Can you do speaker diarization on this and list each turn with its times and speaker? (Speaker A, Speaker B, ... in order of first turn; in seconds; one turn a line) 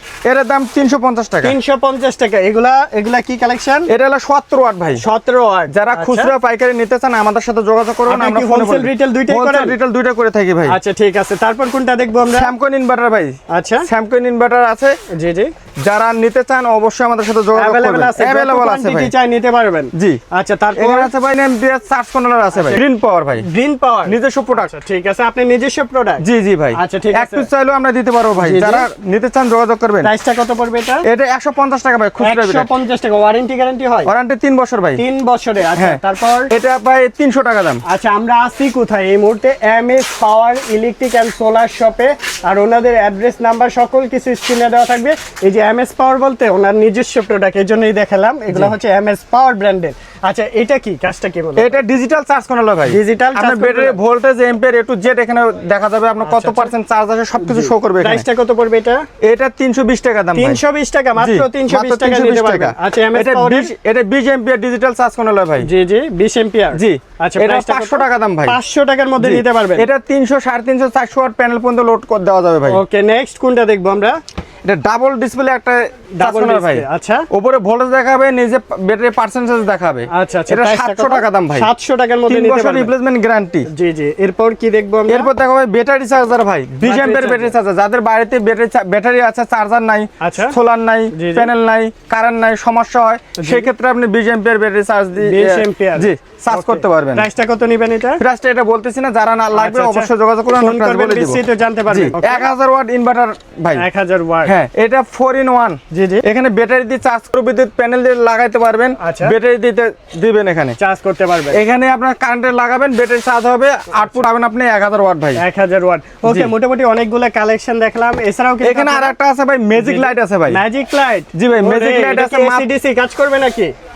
Speaker A: 0.2-1.6
Speaker B: 1.4-3.9
Speaker A: 3.9-5.0
Speaker B: 5.0-6.3
Speaker A: 5.7-10.8
Speaker B: 8.1-9.8
Speaker B: 10.7-12.5
Speaker A: 12.3-15.0
Speaker B: 13.5-13.9
Speaker B: 15.1-15.5
Speaker A: 15.8-19.1
Speaker B: 17.6-21.1
Speaker A: 19.9-20.2
Speaker A: 20.8-23.4
Speaker B: 22.5-22.8
Speaker B: 23.4-26.2
Speaker A: 24.1-24.7
Speaker A: 26.2-30.1
Speaker B: 26.7-27.5
Speaker B: 28.3-28.9
Speaker B: 30.0-31.1
Speaker A: 31.1-32.7
Speaker B: 32.2-34.1
Speaker A: 34.1-35.0
Speaker B: 35.0-36.5
Speaker A: 35.8-37.8
Speaker B: 37.9-51.8
Speaker A: 48.5-48.8
Speaker A: 51.6-58.2
Speaker B: 52.9-54.0
Speaker B: 56.2-56.7
Speaker B: 57.4-59.1
Speaker A: 59.2-60.6
Speaker B: 60.3-63.7
Speaker A: 61.2-65.7
Speaker B: 65.6-69.9
Speaker A: 66.7-68.6
Speaker A: 69.2-72.8
Speaker B: 72.7-74.2
Speaker A: 74.7-81.7
Speaker B: 76.2-77.2
Speaker B: 80.1-82.9
Speaker A: 82.3-83.7
Speaker B: 83.7-85.3
Speaker A: 85.1-97.3
Speaker B: 86.8-87.5
Speaker B: 90.2-90.5
Speaker B: 91.1-91.5
Speaker B: 93.4-93.7
Speaker B: 95.2-98.2
Speaker A: 98.2-103.8
Speaker B: 99.5-102.5
Speaker B: 103.8-104.5
Speaker A: 104.4-110.8
Speaker B: 105.9-106.2
Speaker B: 109.0-109.3
Speaker B: 110.8-111.6
Speaker A: 111.5-115.4
Speaker B: 115.4-119.1
Speaker A: 116.2-116.5
Speaker A: 118.6-120.6
Speaker B: 119.7-123.7
Speaker A: 121.3-122.7